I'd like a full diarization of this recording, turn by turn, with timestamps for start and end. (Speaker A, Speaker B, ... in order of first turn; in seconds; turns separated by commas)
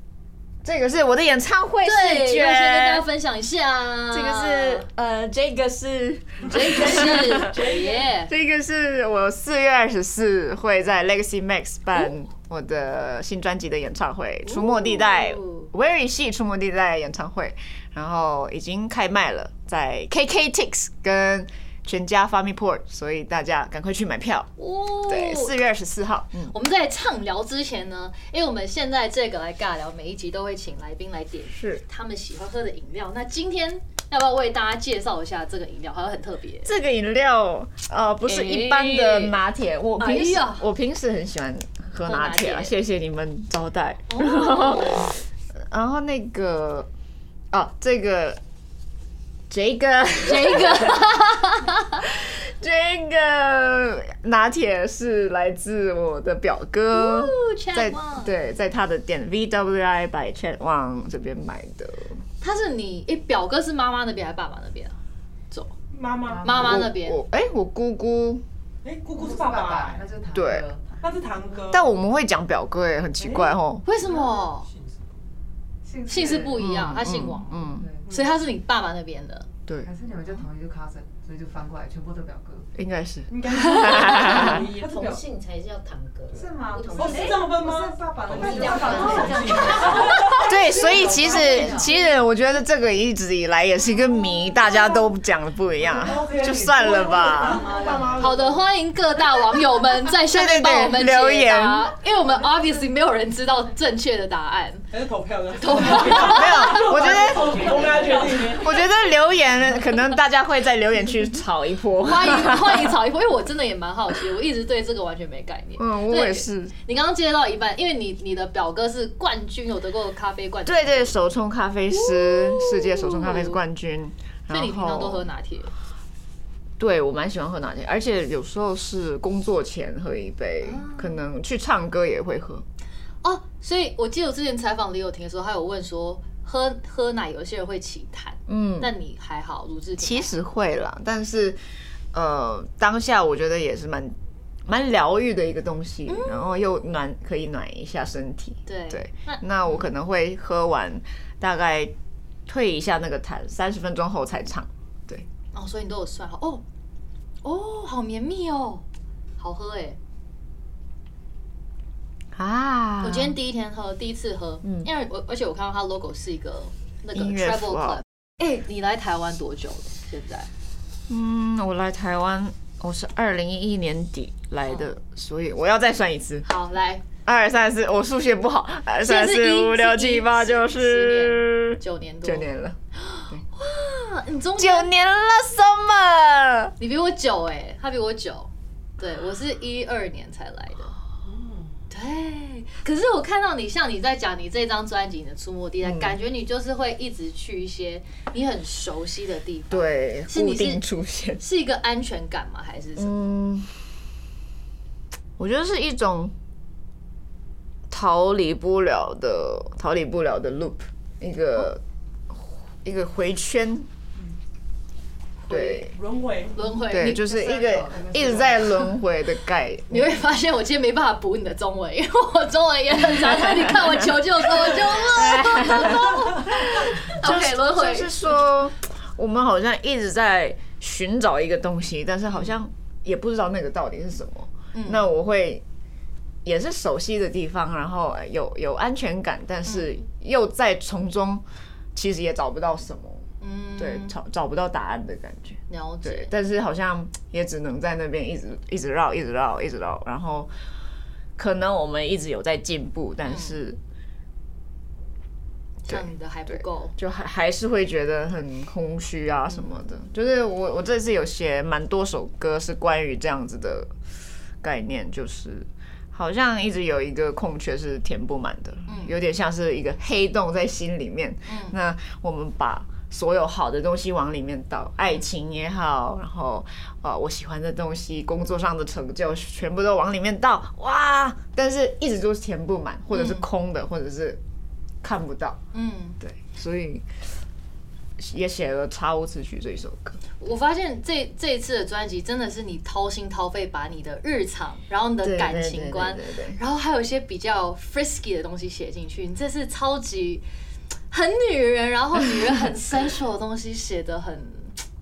Speaker A: 0.6-3.1, Speaker B: 1.8-4.9, Speaker A: 4.1-7.6, Speaker B: 6.4-8.3, Speaker C: 6.8-8.1, Speaker A: 8.3-24.5, Speaker B: 14.4-15.7, Speaker B: 24.6-25.6, Speaker A: 25.1-26.5, Speaker B: 26.5-36.7, Speaker A: 31.5-31.8, Speaker A: 36.6-46.9, Speaker B: 38.2-39.4, Speaker B: 40.0-40.7, Speaker B: 42.1-42.8, Speaker B: 44.1-45.1, Speaker A: 47.5-48.4, Speaker A: 49.5-51.2, Speaker B: 50.2-52.0, Speaker A: 52.0-62.2, Speaker B: 56.9-58.3, Speaker B: 62.4-65.0, Speaker C: 65.9-66.7, Speaker D: 66.2-66.8, Speaker B: 66.4-67.2, Speaker A: 66.5-68.4, Speaker C: 68.8-70.0, Speaker D: 69.1-71.4, Speaker A: 70.3-70.7, Speaker C: 71.0-71.8, Speaker A: 71.7-73.8, Speaker B: 73.8-74.7, Speaker D: 74.0-75.0, Speaker D: 75.8-76.7, Speaker B: 76.1-79.5, Speaker A: 76.2-77.9, Speaker D: 77.6-78.1, Speaker D: 79.8-82.7, Speaker A: 82.8-84.7, Speaker C: 83.3-85.2, Speaker E: 84.3-87.5, Speaker D: 86.3-92.0, Speaker C: 86.9-90.4, Speaker E: 88.3-90.4, Speaker B: 90.2-90.5, Speaker A: 90.4-97.7, Speaker D: 95.9-98.3, Speaker C: 95.9-98.6, Speaker B: 98.2-104.8, Speaker A: 100.2-101.9, Speaker C: 104.9-108.7, Speaker B: 105.6-107.0, Speaker A: 106.2-107.8, Speaker D: 107.3-108.5, Speaker A: 108.5-112.9, Speaker B: 112.0-121.2, Speaker A: 115.8-116.7, Speaker A: 120.7-125.3, Speaker B: 121.9-123.6, Speaker B: 124.5-125.7, Speaker A: 126.8-132.7, Speaker B: 130.6-131.2, Speaker B: 133.2-140.3, Speaker A: 138.5-138.9, Speaker A: 140.0-141.6, Speaker A: 142.1-151.9, Speaker B: 146.1-146.6, Speaker B: 148.7-149.9, Speaker A: 152.5-155.3, Speaker B: 155.5-156.6, Speaker B: 157.4-158.8, Speaker B: 159.4-160.0, Speaker A: 162.3-163.4, Speaker B: 163.0-170.5, Speaker A: 164.6-164.9, Speaker A: 167.1-168.0, Speaker A: 171.1-176.5, Speaker B: 176.4-177.0, Speaker A: 177.2-182.8, Speaker B: 179.0-184.9, Speaker A: 184.6-186.7, Speaker B: 186.8-190.9, Speaker B: 191.9-200.8, Speaker A: 195.8-196.2, Speaker A: 199.7-201.4, Speaker B: 201.4-203.2, Speaker A: 203.0-203.8, Speaker A: 205.4-206.3, Speaker A: 207.9-213.9, Speaker A: 215.5-215.9, Speaker C: 215.5-216.8, Speaker B: 216.6-217.3, Speaker A: 216.9-220.2, Speaker D: 217.2-218.9, Speaker B: 219.9-228.1, Speaker A: 223.3-224.0, Speaker A: 224.6-235.6, Speaker B: 234.7-235.1, Speaker A: 236.4-241.4, Speaker A: 241.9-250.5, Speaker B: 243.4-244.2, Speaker B: 245.7-246.3, Speaker A: 251.4-253.8, Speaker B: 253.2-253.6, Speaker B: 255.9-256.9, Speaker A: 255.9-263.9, Speaker A: 264.6-284.4, Speaker B: 268.9-269.2, Speaker B: 271.5-271.8, Speaker B: 283.1-283.4, Speaker A: 285.0-285.6, Speaker B: 285.7-286.2, Speaker A: 286.2-287.1, Speaker A: 288.2-290.2, Speaker B: 290.4-300.4, Speaker A: 295.2-296.6, Speaker B: 301.1-304.8